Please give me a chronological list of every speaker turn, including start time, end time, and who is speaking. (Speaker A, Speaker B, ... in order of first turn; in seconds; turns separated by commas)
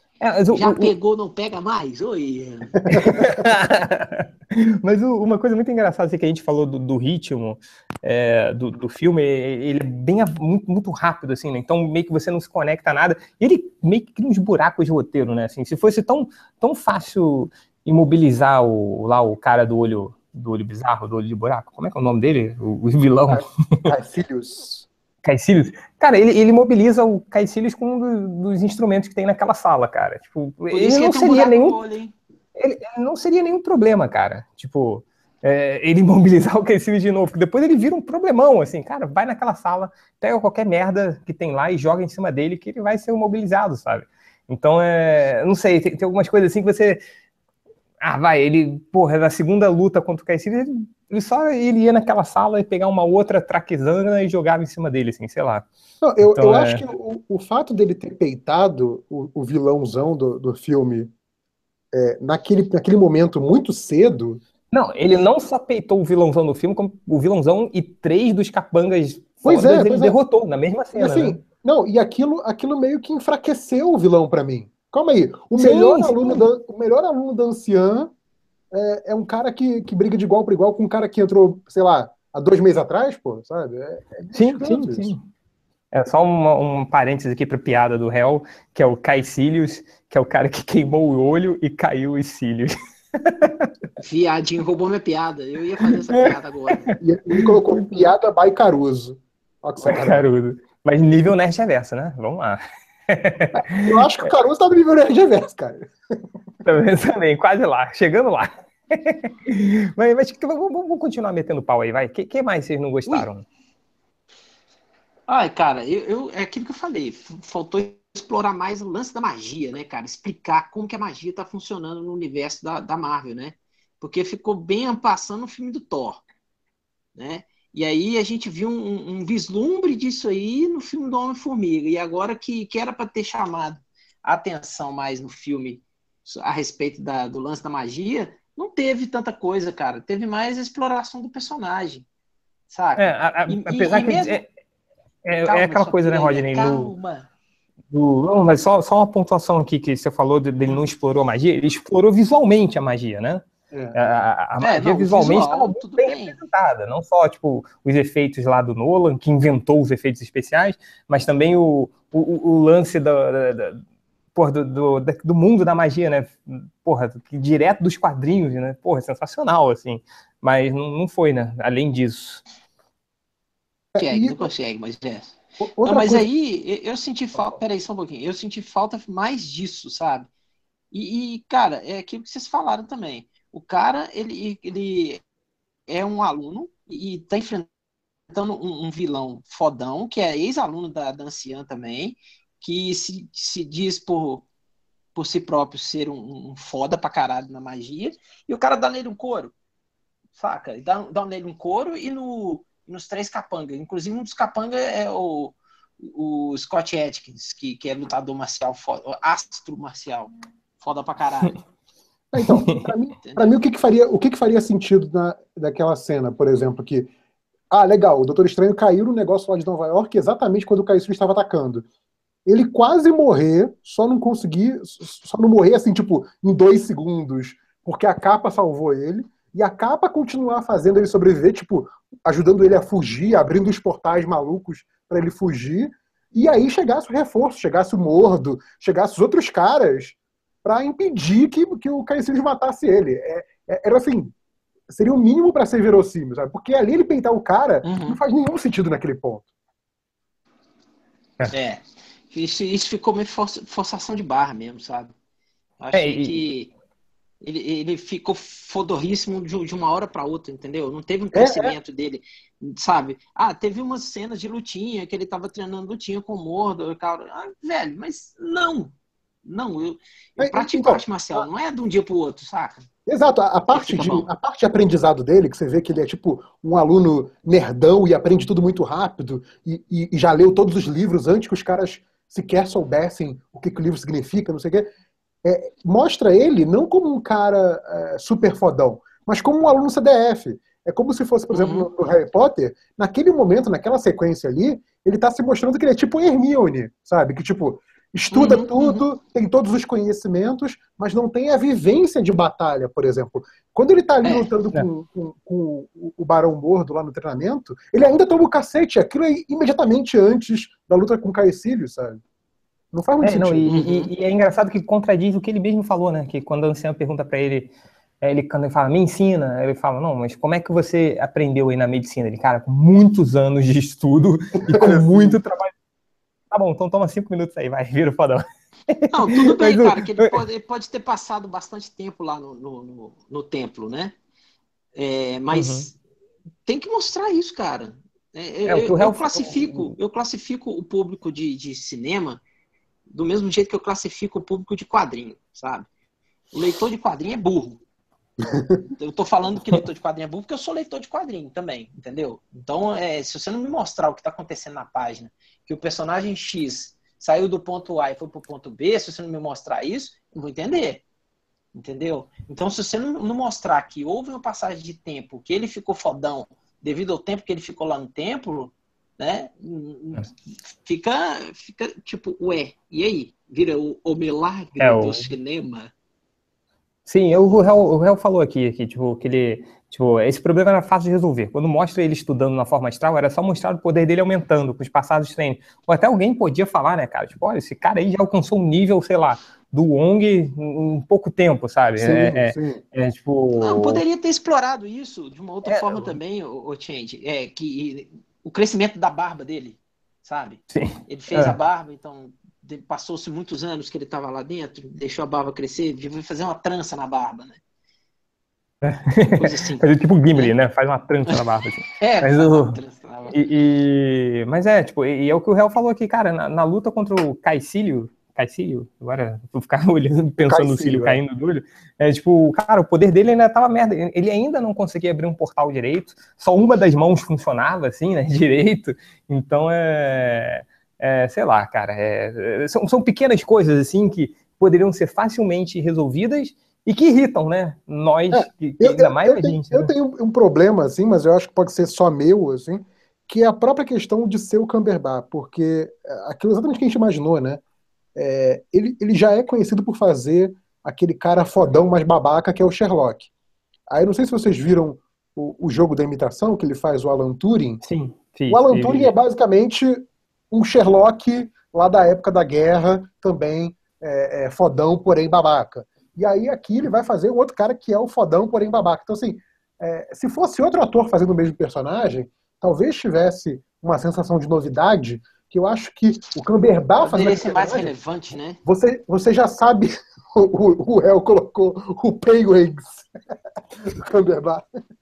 Speaker A: 0.2-0.9, Speaker B: 0.5-2.8, Speaker C: 2.9-3.4, Speaker A: 2.9-23.9, Speaker C: 23.3-24.9, Speaker A: 25.2-31.8, Speaker B: 30.7-32.1, Speaker A: 32.5-47.0, Speaker A: 48.0-55.7, Speaker C: 56.0-61.1, Speaker A: 56.2-56.9, Speaker C: 61.9-64.4, Speaker A: 64.7-71.4, Speaker C: 69.4-70.2, Speaker C: 71.0-78.1, Speaker A: 75.6-76.5, Speaker C: 78.7-85.1, Speaker A: 84.3-85.2, Speaker A: 85.9-93.7, Speaker B: 94.0-97.0, Speaker A: 96.9-98.0, Speaker C: 97.0-100.3, Speaker A: 99.8-104.0, Speaker C: 103.5-106.2, Speaker A: 106.6-113.5, Speaker B: 115.3-126.2, Speaker B: 127.2-142.1, Speaker B: 142.7-144.4, Speaker A: 143.0-144.5, Speaker A: 145.2-146.9, Speaker B: 145.4-147.3, Speaker A: 147.9-163.8, Speaker C: 153.7-154.0, Speaker B: 154.6-156.4, Speaker A: 164.3-172.4, Speaker C: 173.9-174.5, Speaker B: 174.0-180.3, Speaker C: 175.6-176.3, Speaker B: 180.9-185.2, Speaker B: 185.9-187.7, Speaker B: 188.3-194.5, Speaker B: 195.2-199.5, Speaker B: 200.4-211.6, Speaker C: 212.3-217.1, Speaker A: 212.4-212.9, Speaker B: 213.2-213.5, Speaker C: 217.7-221.9, Speaker C: 222.5-244.3, Speaker C: 244.9-249.5, Speaker B: 247.8-248.2, Speaker B: 251.5-255.1, Speaker B: 255.8-256.7, Speaker A: 255.9-256.4, Speaker B: 257.4-268.9, Speaker C: 261.3-261.8, Speaker B: 269.4-272.9, Speaker C: 270.4-271.5, Speaker C: 273.1-284.9, Speaker B: 273.7-274.3, Speaker C: 285.4-312.2, Speaker B: 291.5-291.9, Speaker B: 298.3-299.0, Speaker B: 304.2-304.5, Speaker C: 312.9-313.7, Speaker A: 313.2-325.7, Speaker B: 313.7-314.1, Speaker C: 324.7-325.4, Speaker A: 326.5-330.4, Speaker B: 329.1-334.1, Speaker B: 334.9-336.0, Speaker A: 335.5-335.9, Speaker B: 336.7-342.4, Speaker A: 338.7-339.9, Speaker B: 343.1-345.9, Speaker B: 346.5-347.8, Speaker C: 348.4-348.8, Speaker B: 349.0-361.0, Speaker B: 361.7-375.9, Speaker A: 374.8-375.3, Speaker A: 377.1-394.0, Speaker C: 392.0-392.8, Speaker B: 393.6-407.6, Speaker A: 395.7-396.2, Speaker A: 400.7-401.6, Speaker A: 408.8-412.8, Speaker B: 409.4-410.5, Speaker B: 412.0-413.4, Speaker A: 413.3-439.9, Speaker C: 420.4-421.2, Speaker C: 438.3-447.6, Speaker C: 448.2-453.3, Speaker C: 453.9-457.8, Speaker A: 457.8-459.1, Speaker C: 458.5-477.9, Speaker B: 477.0-478.6, Speaker C: 478.6-483.1, Speaker C: 483.8-484.7